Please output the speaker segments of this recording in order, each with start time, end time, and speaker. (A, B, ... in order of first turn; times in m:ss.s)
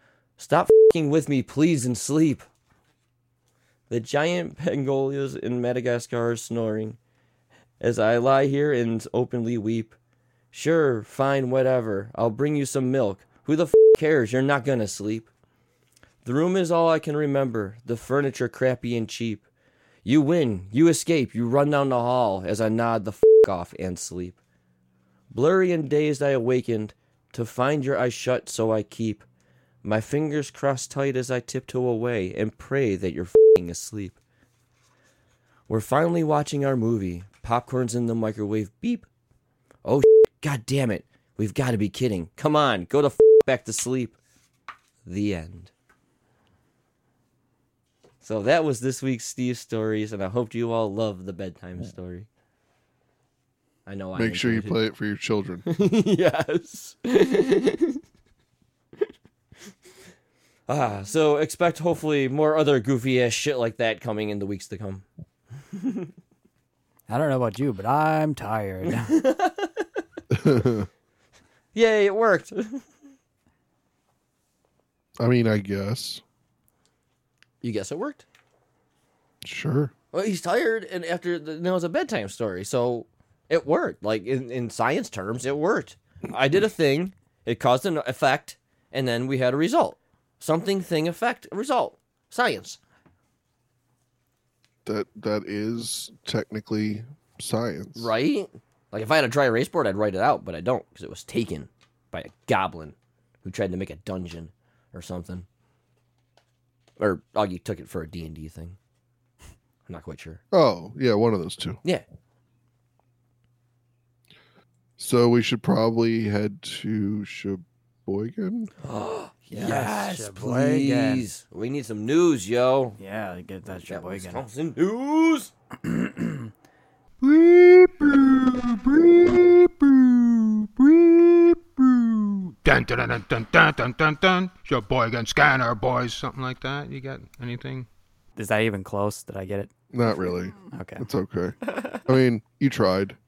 0:00.4-0:02.4 A
0:03.9-0:07.0 A
0:07.8-0:10.0 A
0:10.5-0:15.3 A
0:16.2-0:19.4 A
0:20.0-0:24.4 A
0:25.3-0:29.2 A
0:29.8-0:34.2 A
0:35.7-0:39.1 A
0:39.8-0:44.2 A
0:45.0-0:45.7 A
0:48.2-0:52.3 A
0:53.9-0:54.8 A
0:54.2-0:55.6 B
0:55.7-0:58.0 A
1:00.7-1:05.0 A
1:05.7-1:06.1 A
1:07.1-1:09.1 C
1:08.8-1:09.9 A
1:10.3-1:10.9 B
1:11.8-1:12.8 A
1:15.2-1:16.2 B
1:17.6-1:18.2 A
1:19.4-1:19.9 B
1:20.1-1:32.8 A
1:34.8-1:38.1 B
1:38.0-1:45.5 A
1:47.0-1:48.8 A
1:49.9-1:50.4 A
1:50.5-1:51.8 B
1:55.0-1:58.7 B
1:58.8-2:03.0 A
1:59.5-2:01.2 C
2:03.0-2:04.4 C
2:03.9-2:05.5 A
2:05.8-2:06.5 C
2:12.6-2:17.9 D
2:18.4-2:21.1 C
2:19.9-2:23.2 B
2:21.7-2:22.0 A